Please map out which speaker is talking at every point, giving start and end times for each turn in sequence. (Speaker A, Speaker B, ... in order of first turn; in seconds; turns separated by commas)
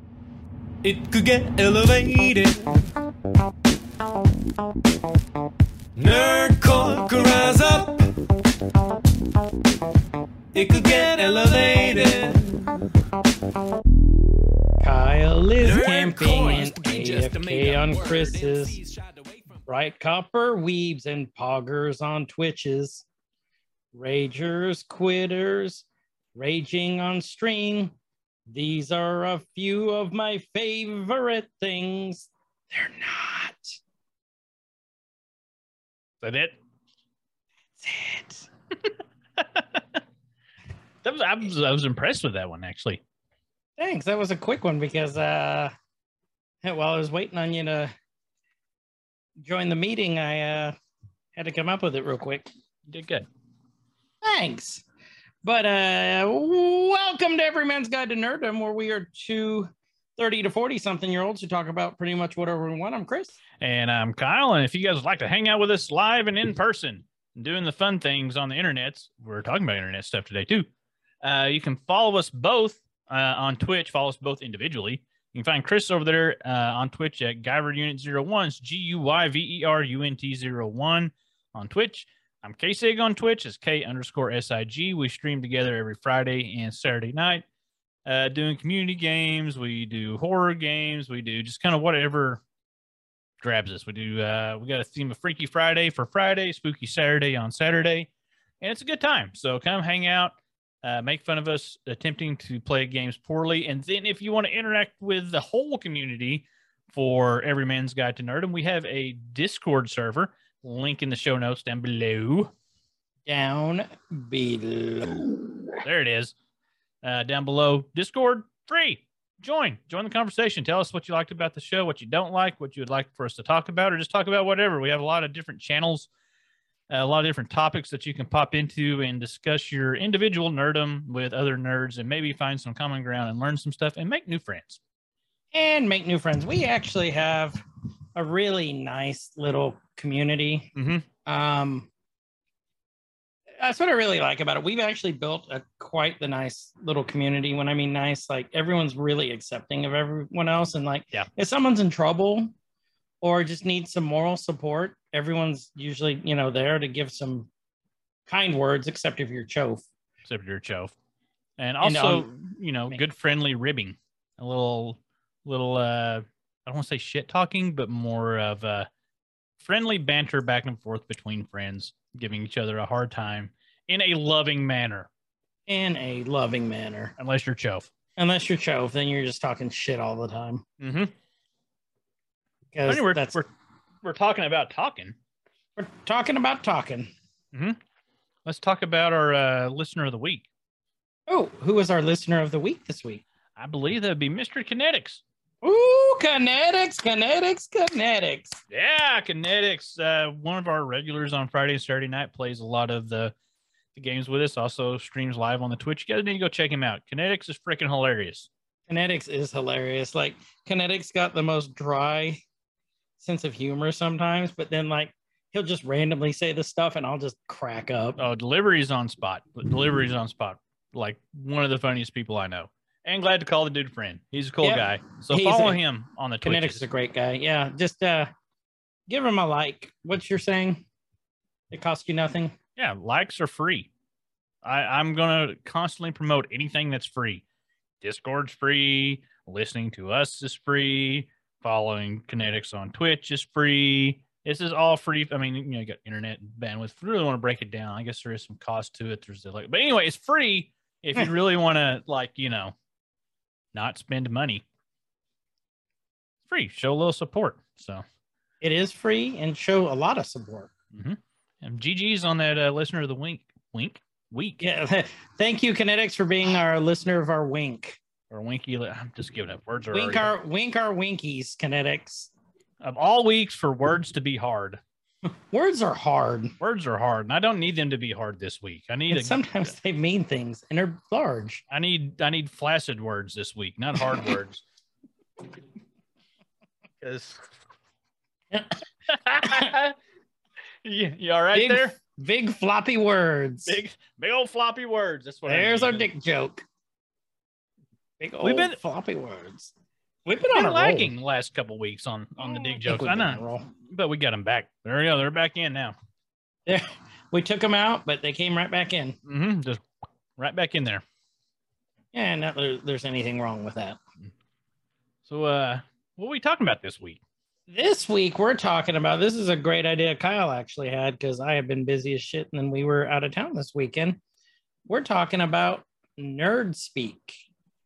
Speaker A: 0.8-2.6, Speaker A: 6.0-8.1, Speaker A: 10.5-12.6, Speaker B: 14.8-18.8, Speaker A: 15.6-19.6, Speaker B: 19.7-23.1, Speaker B: 23.9-27.9, Speaker B: 28.5-33.8, Speaker C: 36.2-36.6, Speaker B: 37.8-38.5, Speaker C: 38.9-40.0, Speaker C: 41.0-43.0, Speaker B: 43.8-45.7, Speaker B: 46.6-47.9, Speaker B: 49.4-50.7, Speaker B: 51.4-52.5, Speaker C: 52.9-53.2, Speaker B: 54.2-54.8, Speaker B: 55.4-63.4, Speaker C: 63.6-70.7, Speaker C: 71.2-87.4, Speaker C: 88.0-92.4, Speaker C: 93.4-112.5, Speaker B: 113.2-115.6, Speaker C: 115.8-116.3, Speaker C: 117.0-126.1, Speaker C: 126.9-134.8, Speaker B: 135.5-137.6, Speaker B: 138.1-140.7, Speaker C: 140.8-141.1, Speaker B: 141.2-141.9, Speaker B: 143.6-152.5, Speaker B: 153.2-157.5, Speaker B: 158.3-159.8, Speaker C: 160.2-160.9, Speaker C: 161.6-168.9, Speaker B: 161.8-162.3, Speaker C: 169.6-175.1, Speaker B: 175.7-177.1, Speaker C: 177.2-177.9, Speaker B: 178.2-180.6, Speaker C: 180.8-181.1, Speaker B: 182.7-183.4, Speaker C: 182.9-183.5, Speaker C: 184.0-185.2, Speaker B: 185.8-187.1, Speaker C: 187.5-187.8, Speaker C: 188.4-190.5, Speaker B: 191.3-193.2, Speaker C: 193.6-195.2, Speaker B: 195.6-198.6, Speaker C: 198.7-203.3, Speaker C: 203.9-208.5, Speaker B: 208.9-212.4, Speaker B: 213.2-218.2, Speaker C: 218.2-226.8, Speaker B: 224.6-225.8, Speaker B: 226.4-228.3, Speaker B: 229.1-230.9, Speaker B: 231.7-232.5, Speaker C: 232.8-233.9, Speaker C: 234.6-237.4, Speaker C: 238.0-252.7, Speaker C: 253.7-254.6, Speaker C: 256.5-258.0, Speaker B: 258.6-260.7, Speaker C: 260.9-264.6, Speaker B: 264.6-268.0, Speaker C: 268.3-270.3, Speaker B: 269.9-272.3, Speaker C: 272.8-274.8, Speaker B: 275.2-276.5, Speaker C: 276.6-279.4, Speaker B: 279.1-281.6, Speaker C: 281.7-284.6, Speaker C: 287.0-287.5, Speaker C: 289.1-289.9, Speaker B: 289.4-289.7, Speaker C: 290.8-291.9, Speaker B: 291.5-293.8, Speaker C: 293.7-296.1, Speaker B: 295.4-296.6, Speaker B: 298.2-299.7, Speaker C: 298.4-298.8, Speaker B: 300.2-301.1, Speaker C: 300.5-305.9, Speaker B: 302.4-303.7, Speaker B: 306.7-309.2, Speaker C: 309.2-311.0, Speaker B: 312.1-314.0, Speaker C: 315.2-317.2, Speaker B: 317.7-324.2, Speaker B: 324.9-327.4